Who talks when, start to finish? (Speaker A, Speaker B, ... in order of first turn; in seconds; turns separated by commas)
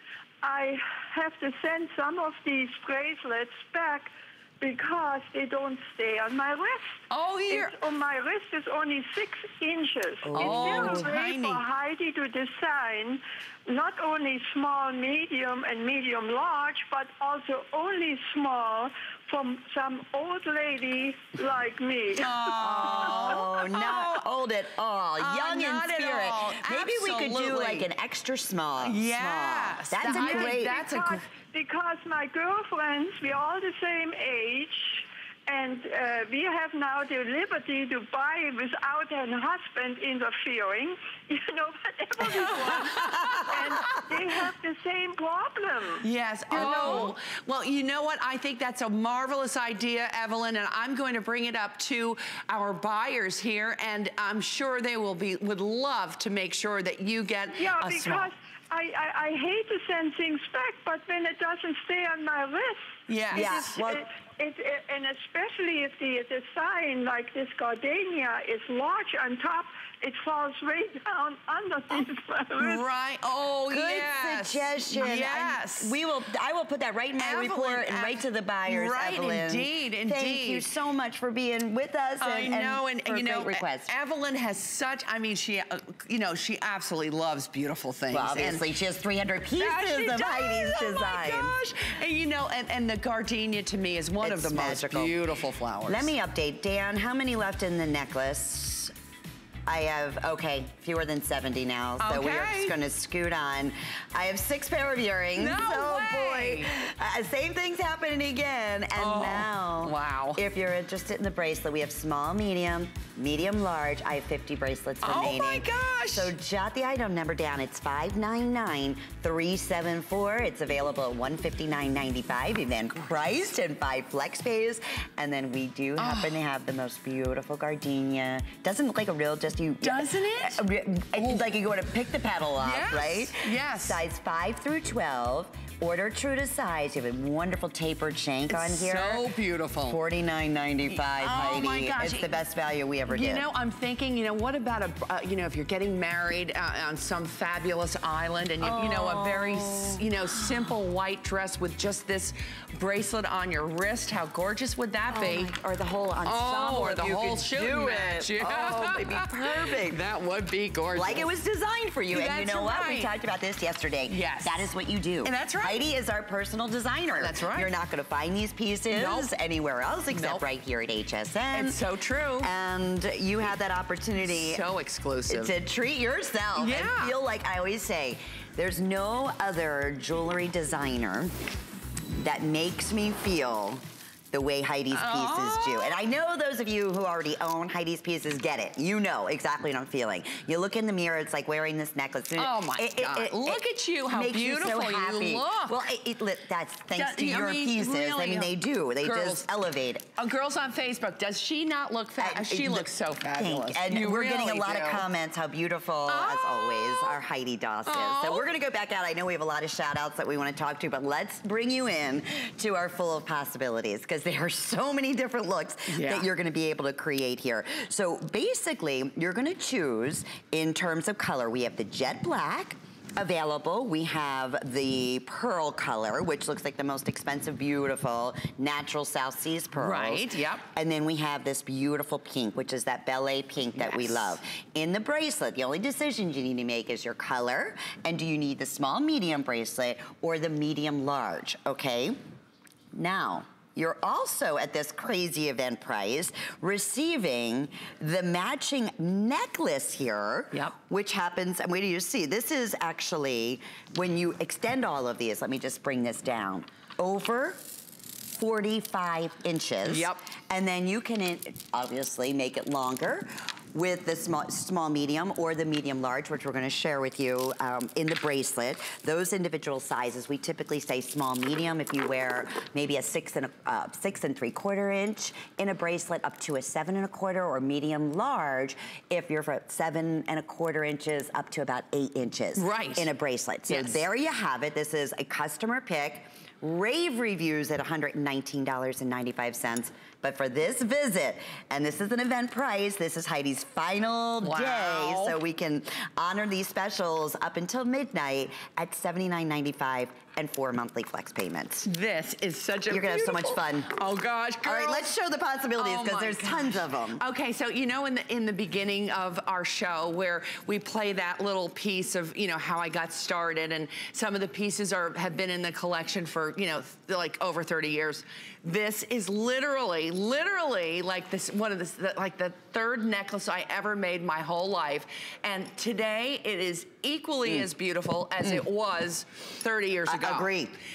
Speaker A: 0.4-22.9, Speaker B: 7.1-7.7, Speaker C: 10.2-11.1, Speaker B: 10.3-11.6, Speaker B: 22.2-24.3, Speaker C: 22.6-30.9, Speaker B: 25.2-27.9, Speaker B: 28.8-31.3, Speaker A: 30.1-47.1, Speaker B: 42.3-43.9, Speaker B: 46.0-58.3, Speaker C: 46.5-47.1, Speaker A: 57.5-72.8, Speaker B: 63.1-63.8, Speaker C: 63.3-64.1, Speaker B: 72.6-76.0, Speaker C: 73.7-83.9, Speaker B: 77.2-80.7, Speaker B: 82.2-88.7, Speaker C: 88.1-91.6, Speaker B: 89.6-96.1, Speaker C: 94.2-95.2, Speaker C: 95.9-98.9, Speaker C: 99.7-139.3, Speaker B: 102.0-102.8, Speaker B: 105.4-106.7, Speaker B: 109.0-110.4, Speaker B: 115.0-116.3, Speaker B: 126.0-126.4, Speaker B: 129.8-131.5, Speaker B: 132.6-134.0, Speaker B: 138.5-140.0, Speaker C: 139.9-143.5, Speaker B: 140.9-142.4, Speaker B: 143.1-155.5, Speaker C: 148.6-150.1, Speaker C: 155.1-160.0, Speaker B: 156.2-161.3, Speaker C: 160.9-171.8, Speaker B: 162.1-163.1, Speaker B: 164.1-164.7, Speaker B: 165.2-165.8, Speaker B: 167.2-167.7, Speaker B: 168.9-169.3, Speaker B: 170.1-170.4, Speaker B: 171.5-172.5, Speaker C: 172.4-174.6, Speaker B: 174.2-175.6, Speaker C: 175.3-181.3, Speaker B: 176.6-177.1, Speaker C: 182.2-200.1, Speaker B: 184.9-186.0, Speaker B: 192.4-195.8, Speaker B: 196.9-199.5, Speaker B: 200.2-205.0, Speaker C: 202.2-242.2, Speaker B: 206.1-207.2, Speaker B: 207.9-208.5, Speaker B: 215.9-216.3, Speaker B: 229.8-230.7, Speaker B: 233.8-234.3, Speaker C: 242.9-257.6, Speaker C: 258.3-301.9, Speaker B: 259.9-260.2, Speaker B: 282.6-283.1, Speaker B: 283.7-284.1, Speaker B: 294.4-295.4, Speaker B: 301.8-305.1, Speaker C: 302.9-303.9, Speaker C: 304.6-307.2, Speaker B: 305.8-330.5, Speaker C: 330.1-330.7